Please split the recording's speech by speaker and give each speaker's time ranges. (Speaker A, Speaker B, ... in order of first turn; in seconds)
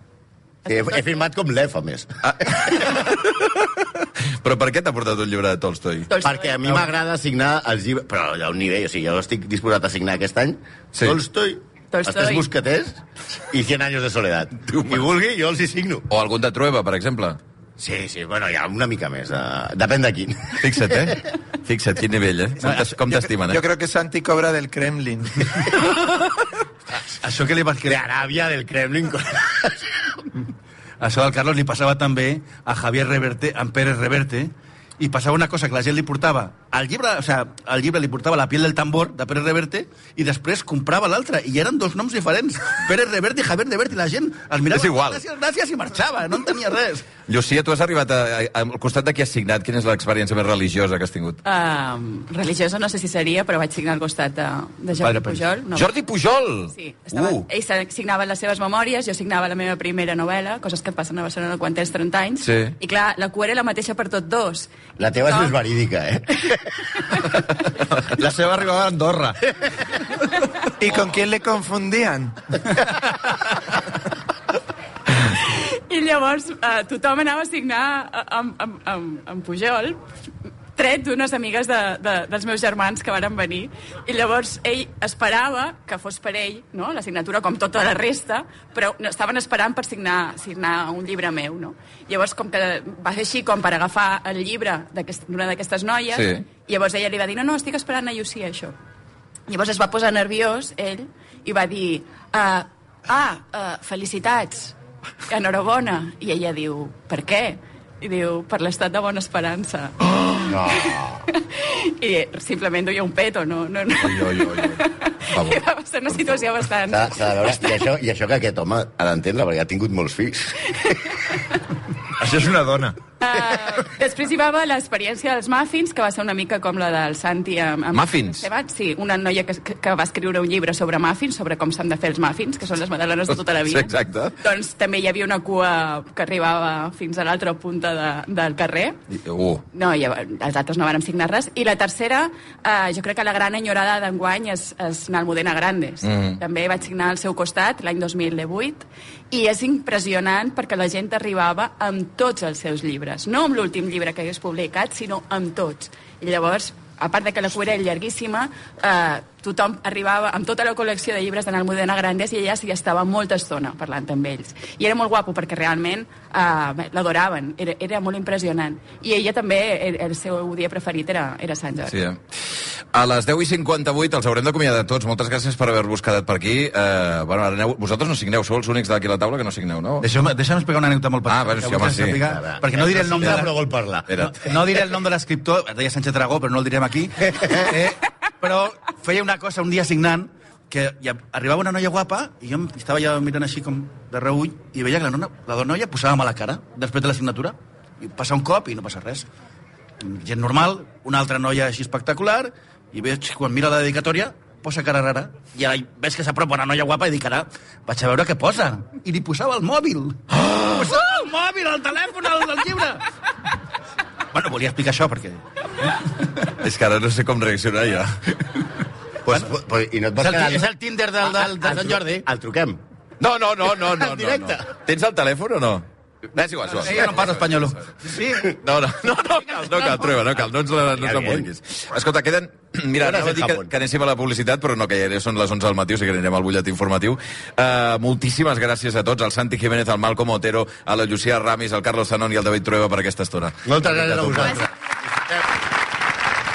Speaker A: 0.7-2.6, 6.2-16.0, 17.8-21.1, 27.9-30.1, 65.0-66.6, 110.5-111.2, 116.9-120.9, 182.3-184.1, 219.2-220.7, 221.2-222.8, 223.8-224.6, 231.0-231.5, 233.0-233.7, 243.7-244.7
Speaker B: 2.2-6.1, 14.7-15.0, 16.1-17.4, 20.6-23.6, 44.7-45.2, 47.3-51.4, 55.7-57.5, 62.4-62.7, 96.1-96.4, 114.0-114.8, 115.3-115.6, 127.9-128.4, 133.7-134.3, 139.1-139.6, 146.0-146.4, 171.9-172.2, 172.9-180.1, 181.3-182.2, 184.1-184.4, 210.3-210.9, 216.4-218.6, 223.2-227.5, 228.4-244.6
Speaker C: 6.1-6.9, 11.9-12.5, 51.4-55.9, 56.7-64.7, 75.3-80.0, 80.8-98.7, 99.5-104.7, 105.3-117.3, 120.8-121.4, 123.2-139.0, 139.7-172.0
Speaker D: 22.6-23.3, 27.0-28.0, 31.0-47.1, 55.0-55.4, 180.0-183.5, 184.1-199.3, 200.0-213.0, 214.3-215.4, 220.2-222.2, 226.7-228.5
Speaker E: 23.5-25.7, 70.8-72.3
Speaker F: 67.9-69.7, 122.2-123.0